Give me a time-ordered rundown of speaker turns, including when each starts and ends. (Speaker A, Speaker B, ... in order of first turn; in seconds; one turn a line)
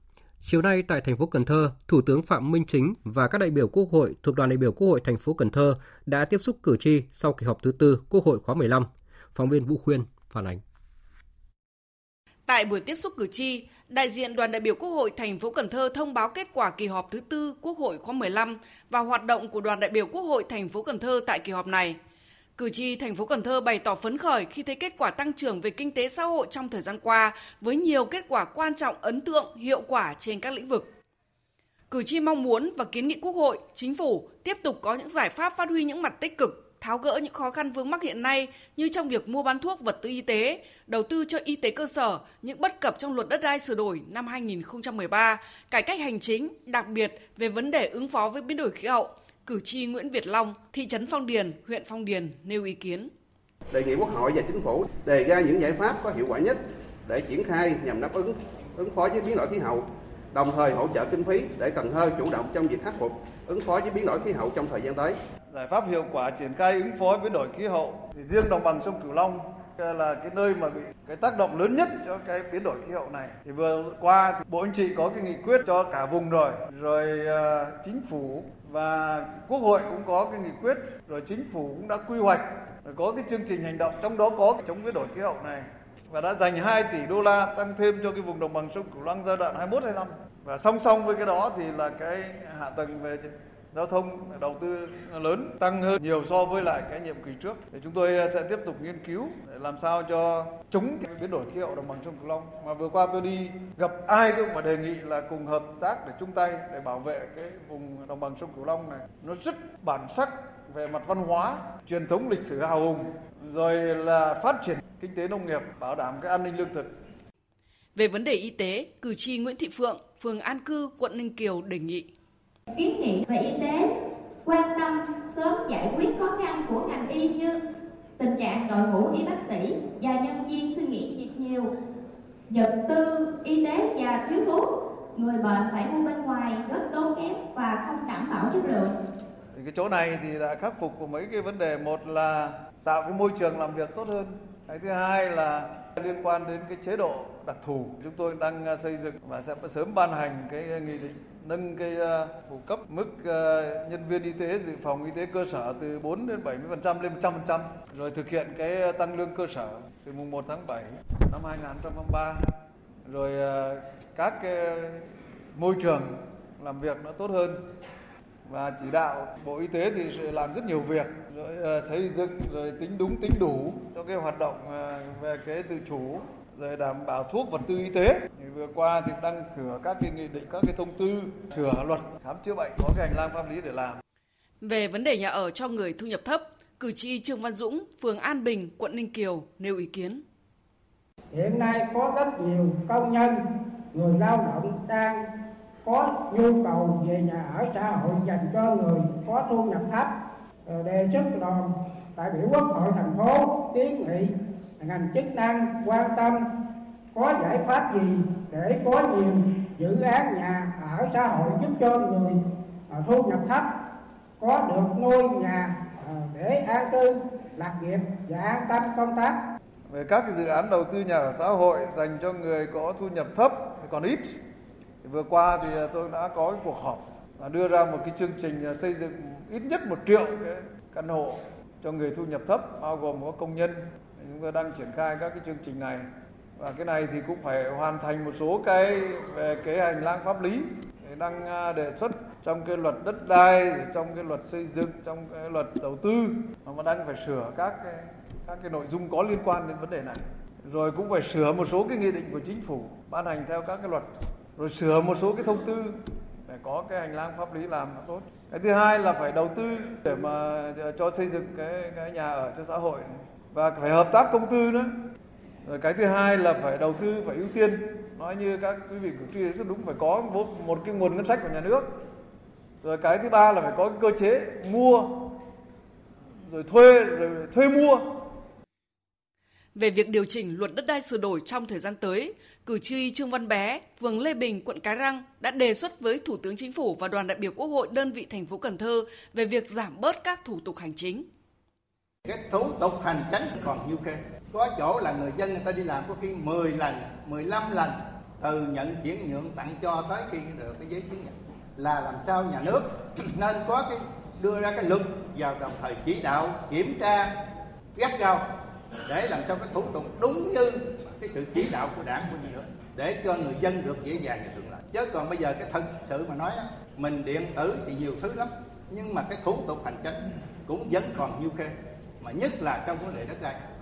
Speaker A: 0.4-10.6
Speaker B: 12.5-22.0
Speaker B: 22.6-30.9
Speaker B: 31.9-53.1
Speaker C: 53.7-65.2
Speaker D: 65.5-117.0
Speaker B: 118.0-122.1
Speaker E: 122.7-123.9
Speaker E: 124.5-127.6
Speaker E: 128.2-131.7
Speaker E: 132.5-138.9
Speaker D: 139.5-162.6
Speaker D: 163.1-167.6
Speaker D: 168.5-184.0
Speaker B: 184.6-190.2
Speaker F: 191.3-193.4
Speaker F: 193.9-195.2
Speaker F: 195.8-200.1
Speaker F: 200.7-206.4
Speaker F: 207.1-213.7
Speaker F: 214.4-219.4
Speaker D: 219.9-224.4
Speaker D: 225.0-264.9
Speaker D: 265.6-272.0
Speaker D: 272.8-275.3
Speaker D: 276.5-278.1
Speaker B: 279.8-291.3
Speaker G: 292.3-307.3
Speaker G: 308.0-308.4
Speaker G: 309.1-323.6